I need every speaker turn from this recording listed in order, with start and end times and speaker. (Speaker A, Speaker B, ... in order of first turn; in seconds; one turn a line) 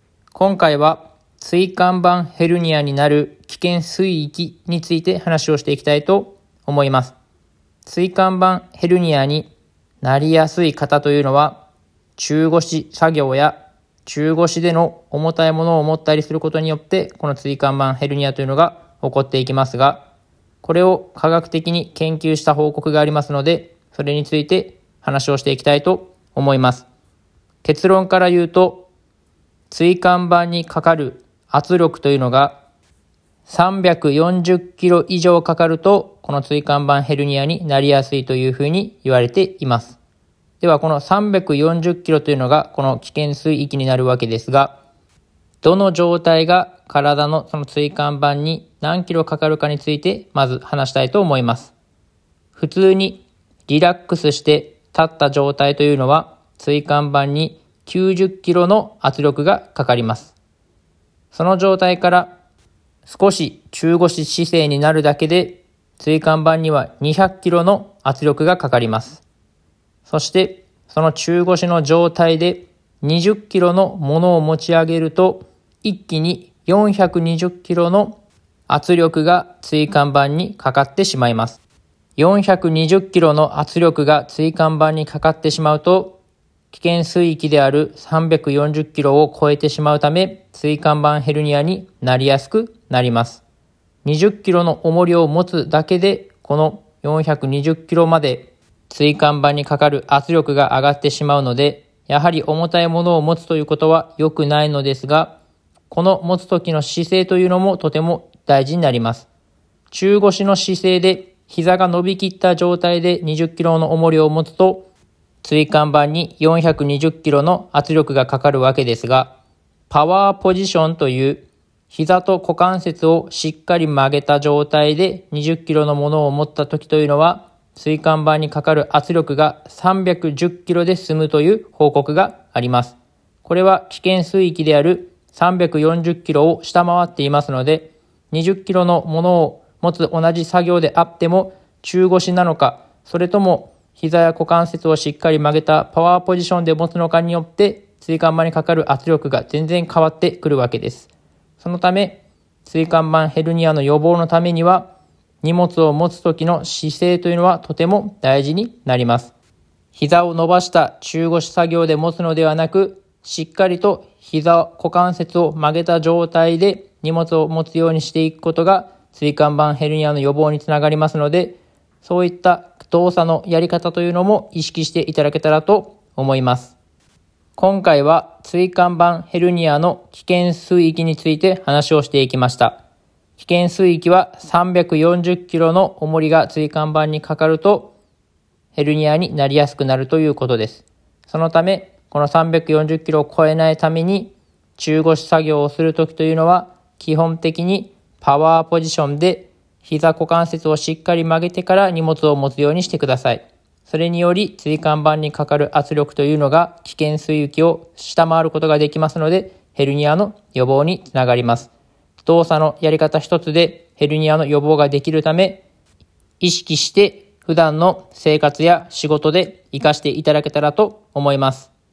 Speaker A: 0.3-7.1
Speaker A: 7.8-9.5
Speaker A: 10.0-11.6
Speaker A: 12.2-20.0
Speaker A: 20.6-26.9
Speaker A: 27.6-28.9
Speaker A: 29.7-32.6
Speaker A: 33.5-40.0
Speaker A: 40.6-44.7
Speaker A: 45.6-51.7
Speaker A: 52.5-60.3
Speaker A: 61.3-62.3
Speaker A: 63.0-69.2
Speaker A: 70.1-78.2
Speaker A: 78.7-81.6
Speaker A: 82.2-86.2
Speaker A: 86.7-93.4
Speaker A: 94.0-105.3
Speaker A: 105.9-109.3
Speaker A: 109.9-114.9
Speaker A: 115.4-119.3
Speaker A: 119.9-151.1
Speaker A: 151.6-154.9
Speaker A: 155.4-159.3
Speaker A: 159.9-176.8
Speaker A: 177.6-182.8
Speaker A: 183.4-187.9
Speaker A: 188.7-211.7
Speaker A: 212.2-215.6
Speaker A: 216.4-221.7